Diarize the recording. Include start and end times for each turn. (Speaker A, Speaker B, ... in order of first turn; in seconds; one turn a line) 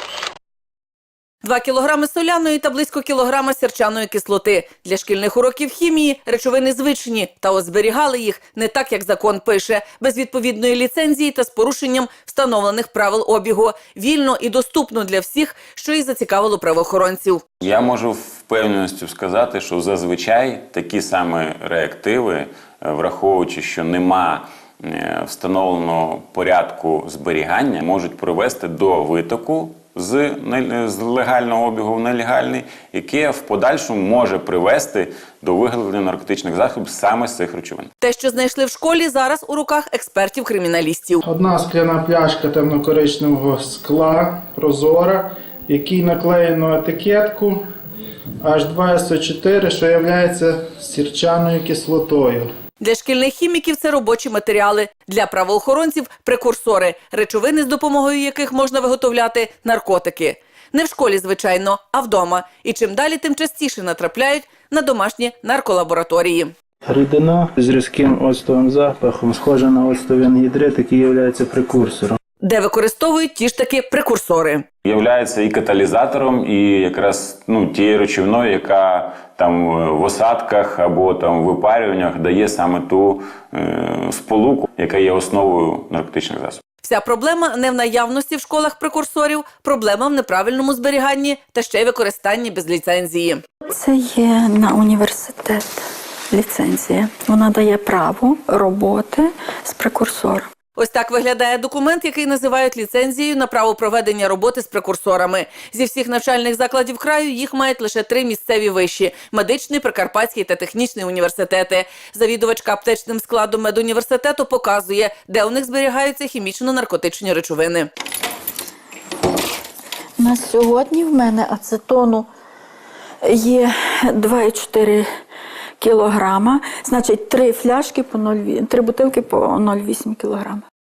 Speaker A: 1.4-17.4
Speaker B: 17.6-37.9
Speaker A: 38.0-41.2
Speaker C: 41.2-47.6
Speaker C: 48.4-52.5
Speaker A: 52.8-66.5
Speaker C: 66.8-72.2
Speaker A: 72.4-74.7
Speaker B: 74.8-86.6
Speaker A: 86.8-93.4
Speaker D: 93.7-95.8
Speaker D: 96.3-100.5
Speaker A: 100.8-117.9
Speaker D: 120.2-122.3
Speaker D: 123.2-125.0
Speaker D: 125.8-130.6